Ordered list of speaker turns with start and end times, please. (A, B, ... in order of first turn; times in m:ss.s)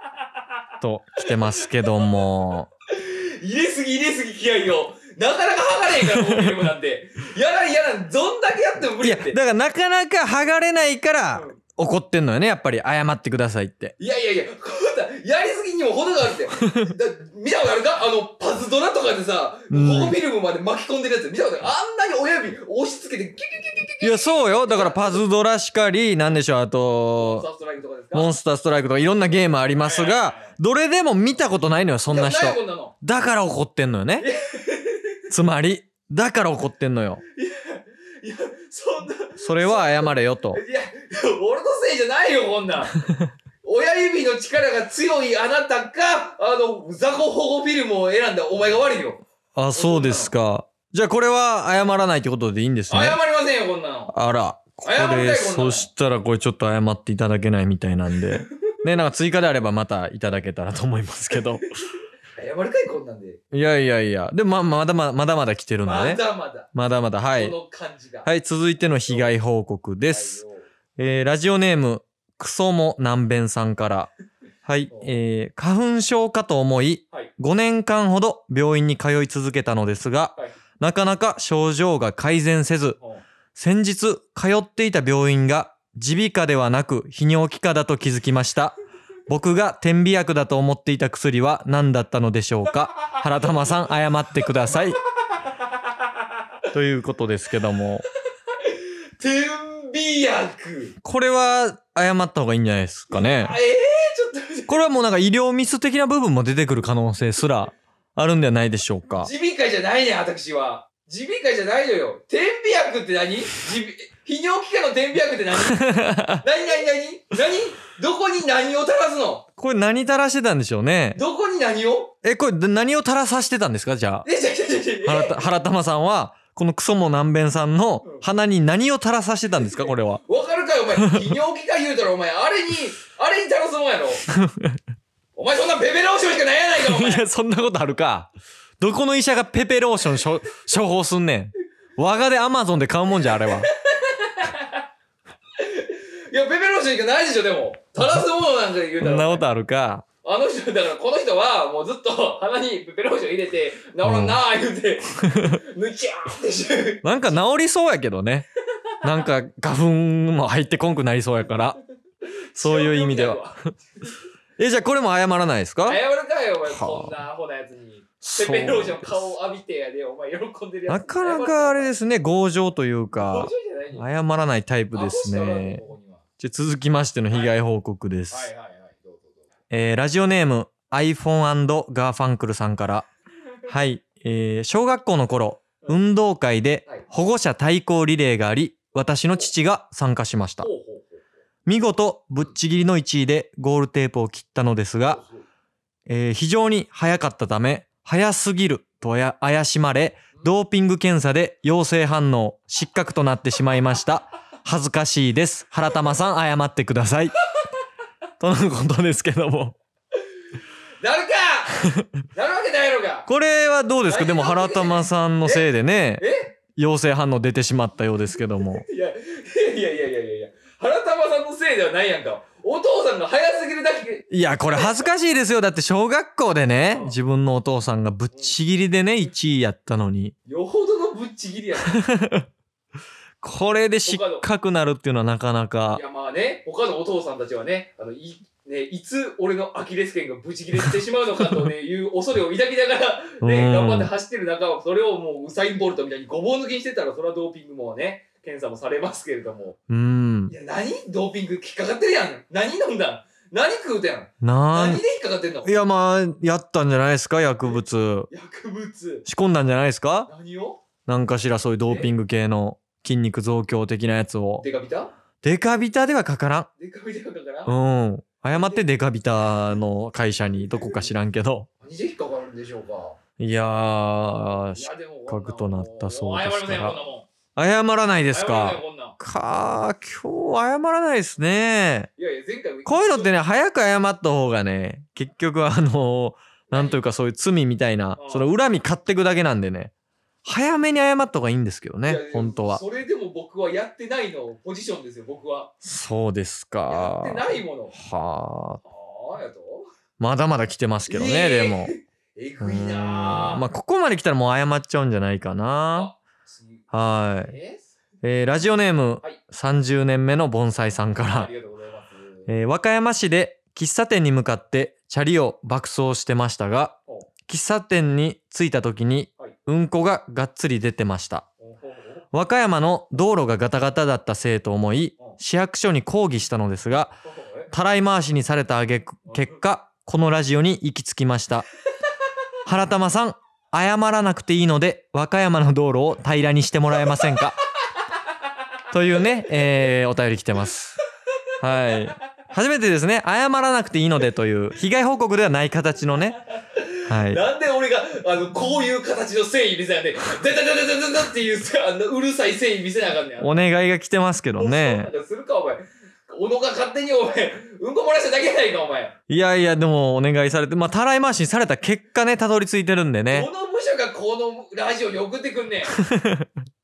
0:00.8-0:02.7 A
0:02.9-0:09.4 B
0:06.0-0:06.7 A
0:09.0-0:13.9 A
0:14.0-0:25.2 B
0:16.6-0:16.9 A
0:19.7-0:20.2 A
0:24.0-0:27.4 A
0:27.2-0:28.3 B
0:28.1-0:34.3 A
0:29.8-0:30.5 B
0:32.1-0:32.9 B
0:34.2-0:35.2 B
0:35.3-0:37.2 A
0:37.3-0:43.0 B
0:39.4-0:40.6 A
0:43.6-0:49.2 B
0:49.5-0:53.2 A
0:49.7-0:50.3 B
0:52.9-0:54.1 B
0:54.1-1:01.6 A
0:54.8-0:55.9 B
1:02.4-1:03.4 B
1:03.5-1:06.2 A
1:05.8-1:06.7 B
1:06.7-1:07.6 A
1:07.3-1:08.3 B
1:08.2-1:10.4 A
1:09.1-1:09.3 B
1:10.1-1:10.7 B
1:11.0-1:14.1 A
1:14.6-1:23.0 A
1:14.9-1:15.2 B
1:23.0-1:23.2 B
1:23.5-1:28.8 A
1:29.3-1:35.0 A
1:36.7-1:38.0 A
1:38.6-1:41.0 B
1:41.0-1:43.5 A
1:43.1-1:44.8 B
1:44.7-1:49.3 A
1:49.2-1:55.9 B
1:55.6-1:56.4 A
1:56.4-1:59.5 B
1:59.6-2:01.2 A
2:01.1-2:02.1 B
2:02.2-2:04.2 A
2:04.2-2:05.4 B
2:05.0-2:10.2 A
2:09.6-2:14.2 B
2:14.3-2:14.8 A
2:15.4-2:17.2 B
2:16.8-2:23.7 A
2:23.3-2:24.8 B
2:25.6-2:29.4 B
2:29.0-2:30.0 A
2:30.2-2:37.0 B
2:34.0-2:34.4 A
2:35.2-2:35.6 A
2:37.0-2:38.5 A
2:39.0-2:41.8 A
2:42.5-2:44.2 B
2:42.5-2:43.5 A
2:44.6-2:46.0 A
2:45.8-2:51.9 B
2:46.6-2:47.1 A
2:48.2-2:49.1 A
2:50.9-2:55.8 A
2:53.2-2:54.0 B
2:54.9-2:56.2 B
2:56.4-2:58.5 A
2:57.3-2:57.6 B
2:58.3-2:59.5 B
2:59.7-3:03.1 A
3:03.7-3:10.7 A
3:10.6-3:11.2 B
3:11.6-3:15.2 A
3:15.1-3:15.4 B
3:16.1-3:27.3 A
3:28.4-3:29.8 A
3:31.0-3:33.3 B
3:33.3-3:38.8 A
3:34.1-3:35.7 B
3:36.2-3:36.5 B
3:38.6-3:45.0 B
3:44.3-3:50.3 A
3:46.9-3:47.2 B
3:50.4-3:52.0 B
3:51.9-3:52.5 A
3:53.4-3:56.0 A
3:54.0-3:54.4 B
3:55.9-4:09.8 B
4:01.4-4:01.7 A
4:03.4-4:04.1 A
4:09.9-4:10.5 A
4:10.5-4:15.7 B
4:14.4-4:15.0 A
4:15.6-4:18.3 A
4:17.6-4:19.2 B
4:19.2-4:20.3 A
4:20.3-4:20.8 B
4:21.1-4:24.6 A
4:24.6-4:25.1 B
4:25.4-4:26.7 A
4:26.8-4:27.7 B
4:27.6-4:31.7 A
4:28.5-4:28.8 B
4:30.7-4:31.1 B
4:31.8-4:33.2 B
4:33.4-4:37.0 A
4:34.7-4:37.3 B
4:37.6-4:42.1 A
4:38.3-4:39.2 B
4:42.2-4:43.4 B
4:42.8-4:49.9 A
4:46.7-4:47.0 B
4:48.2-4:48.4 B
4:50.4-4:52.8 A
4:52.0-4:55.7 B
4:55.8-4:58.8 A
4:56.9-4:58.0 B
4:58.8-4:59.9 B
5:00.2-5:01.9 A
5:01.1-5:03.6 B
5:02.6-5:06.1 A
5:05.9-5:07.9 B
5:06.9-5:07.5 A
5:08.2-5:11.5 A
5:11.2-5:12.5 B
5:12.5-5:21.5 A
5:21.6-5:22.2 B
5:22.3-5:27.2 A
5:27.2-5:27.7 B
5:27.7-5:31.7 A
5:29.2-5:29.6 B
5:32.6-5:37.6 A
5:38.9-5:41.0 A
5:41.6-5:46.4 A
5:46.6-5:53.6 B
5:47.1-5:47.4 A
5:53.4-5:55.1 A
5:54.6-5:59.1 B
5:59.3-6:03.5 A
6:03.3-6:06.0 B
6:05.9-6:06.5 A